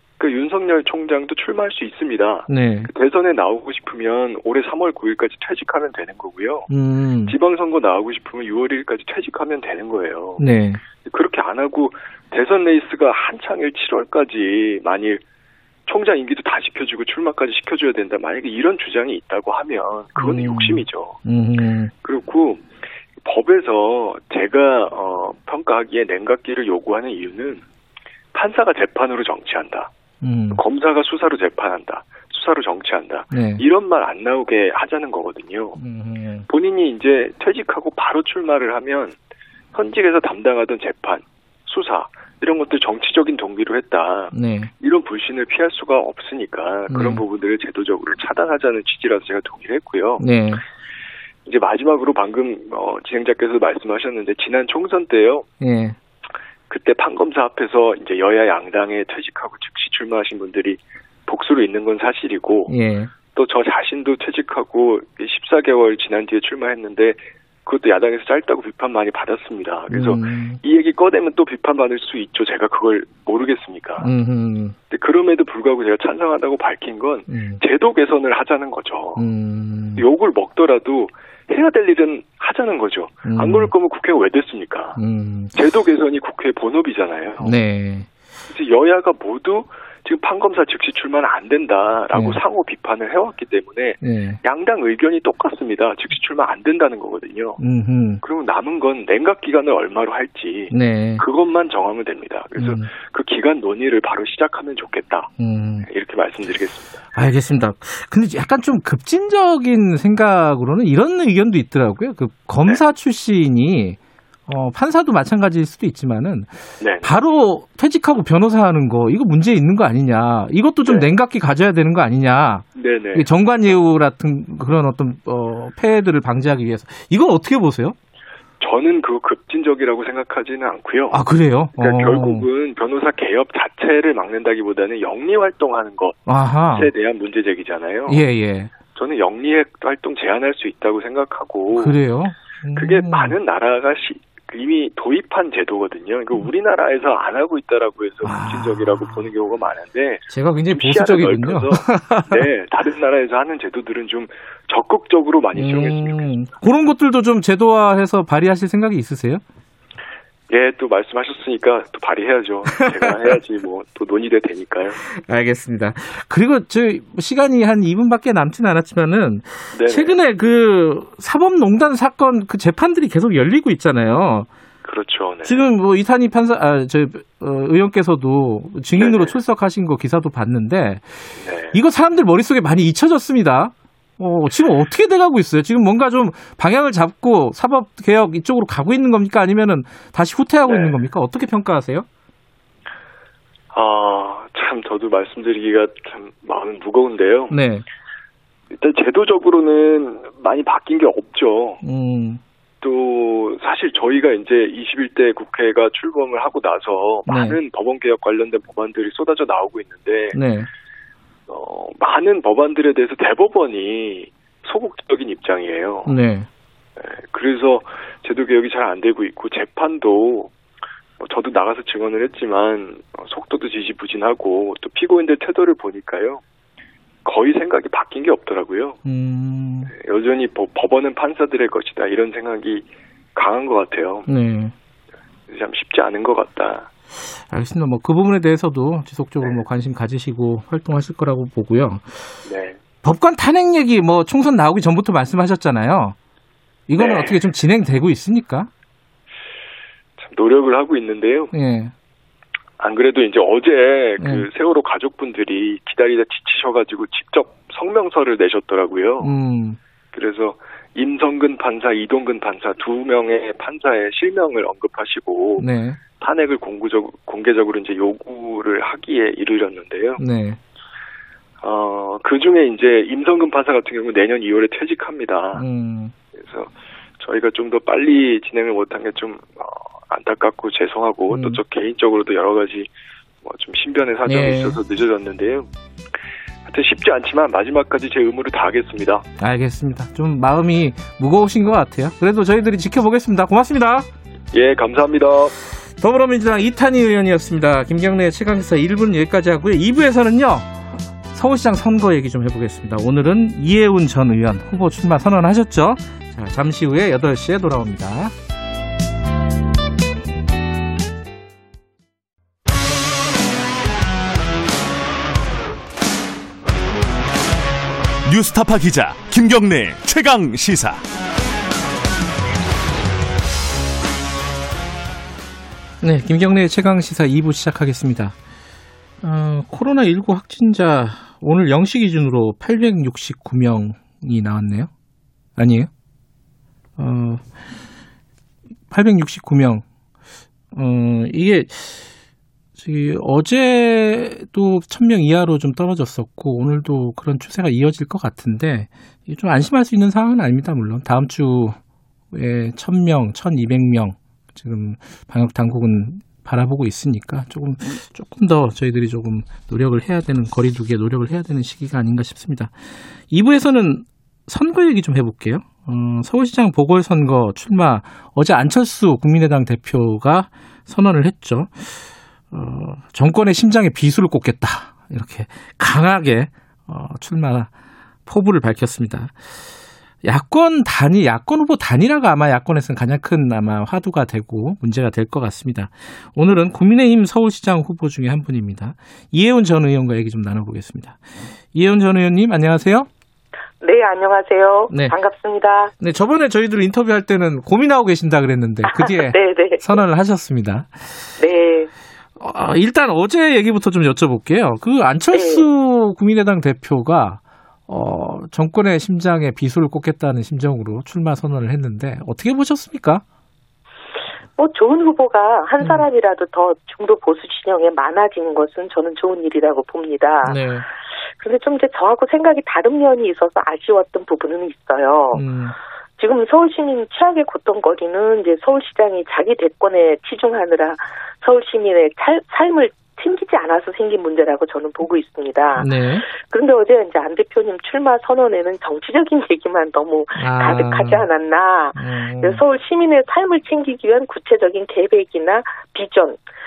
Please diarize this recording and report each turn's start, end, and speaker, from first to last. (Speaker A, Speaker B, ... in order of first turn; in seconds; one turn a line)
Speaker A: 0.2-6.7
Speaker B: 2.5-2.9
Speaker B: 6.7-7.3
Speaker A: 7.2-10.4
Speaker B: 10.4-10.8
Speaker A: 11.0-15.2
Speaker A: 15.9-21.2
Speaker B: 20.2-21.9
Speaker A: 22.0-22.6
Speaker A: 23.2-27.6
Speaker A: 28.3-29.9
Speaker B: 30.2-30.6
Speaker A: 30.5-35.8
Speaker B: 33.3-33.6
Speaker B: 35.8-36.5
Speaker A: 36.5-39.1
Speaker A: 39.7-50.2
Speaker B: 44.3-44.7
Speaker B: 46.9-47.2
Speaker B: 50.2-50.6
Speaker A: 51.5-55.5
Speaker B: 55.6-56.0
Speaker A: 56.7-62.7
Speaker B: 62.7-63.1
Speaker A: 63.3-74.1
Speaker B: 69.9-70.6
Speaker B: 74.0-74.8
Speaker A: 74.9-79.2
Speaker B: 77.3-77.6
Speaker B: 79.2-80.0
Speaker A: 80.0-85.0
Speaker B: 83.2-83.7
Speaker B: 85.0-85.5
Speaker A: 85.5-87.6
Speaker B: 87.4-88.1
Speaker A: 88.5-97.6
Speaker B: 92.1-92.4
Speaker B: 94.0-94.4
Speaker B: 97.6-98.2
Speaker A: 98.2-105.3
Speaker B: 100.7-101.2
Speaker B: 102.6-102.9
Speaker B: 105.4-105.9
Speaker A: 105.8-107.0
Speaker B: 107.1-128.0
Speaker A: 116.8-117.1
Speaker A: 122.7-123.3
Speaker A: 128.6-131.2
Speaker B: 131.1-132.4
Speaker A: 131.8-138.2
Speaker B: 136.3-136.9
Speaker B: 138.1-138.7
Speaker A: 138.9-142.0
Speaker B: 141.7-143.3
Speaker A: 142.7-156.4
Speaker B: 148.2-149.3
Speaker B: 150.3-152.4
Speaker B: 155.6-159.4
Speaker A: 160.5-165.0
Speaker B: 163.0-163.3
Speaker B: 165.1-174.5
Speaker A: 169.7-170.2
Speaker A: 174.8-175.6
Speaker B: 175.4-192.1
Speaker A: 179.0-179.3
Speaker A: 181.4-181.8
Speaker A: 190.6-190.9
Speaker A: 193.7-197.6
Speaker B: 197.5-197.8
Speaker A: 198.7-201.8
Speaker B: 201.8-202.4
Speaker A: 202.8-210.4
Speaker B: 207.3-207.6
Speaker B: 210.3-210.7
Speaker A: 211.5-216.1
Speaker B: 216.1-216.5
Speaker A: 217.0-220.5
Speaker A: 221.2-226.4
Speaker A: 227.2-229.0
Speaker B: 229.0-229.9
Speaker A: 229.9-234.3
Speaker B: 234.3-234.7
Speaker A: 235.5-236.9
Speaker B: 237.5-242.3
Speaker A: 242.4-242.8
Speaker B: 243.0-246.2
Speaker B: 246.9-248.7
Speaker A: 247.0-247.4
Speaker A: 250.2-251.5
Speaker B: 251.5-251.9
Speaker A: 252.8-259.3
Speaker B: 254.2-254.4
Speaker B: 259.2-259.8
Speaker A: 260.1-265.7
Speaker B: 265.6-266.0
Speaker A: 266.2-270.2
Speaker B: 270.2-270.6
Speaker A: 271.6-275.6
Speaker B: 275.5-276.1
Speaker A: 276.4-282.9
Speaker B: 281.3-281.6
Speaker A: 283.4-285.7
Speaker B: 284.2-284.8
Speaker A: 286.7-289.2
Speaker B: 289.4-294.1
Speaker A: 294.5-295.5
Speaker B: 296.0-300.8
Speaker B: 301.3-308.3
Speaker C: 318.2-321.0
Speaker B: 326.0-328.3
Speaker B: 329.2-334.9
Speaker B: 335.6-335.9
Speaker B: 337.0-337.4
Speaker B: 338.9-339.8
Speaker B: 340.7-342.1
Speaker B: 342.8-351.8
Speaker B: 352.3-362.7
Speaker B: 363.3-371.9
Speaker B: 372.5-377.7
Speaker B: 378.2-379.3
Speaker B: 380.2-393.1
Speaker D: 393.8-395.9
Speaker B: 394.9-395.1
Speaker B: 396.0-401.1
Speaker D: 398.9-400.0
Speaker D: 401.4-401.9
Speaker B: 402.4-413.2
Speaker D: 405.3-405.6
Speaker D: 414.6-420.6
Speaker B: 415.8-416.1
Speaker B: 420.4-420.8
Speaker D: 421.4-425.4
Speaker B: 425.3-425.7
Speaker D: 426.2-446.4
Speaker B: 435.8-436.3
Speaker B: 440.4-441.2
Speaker B: 441.9-442.6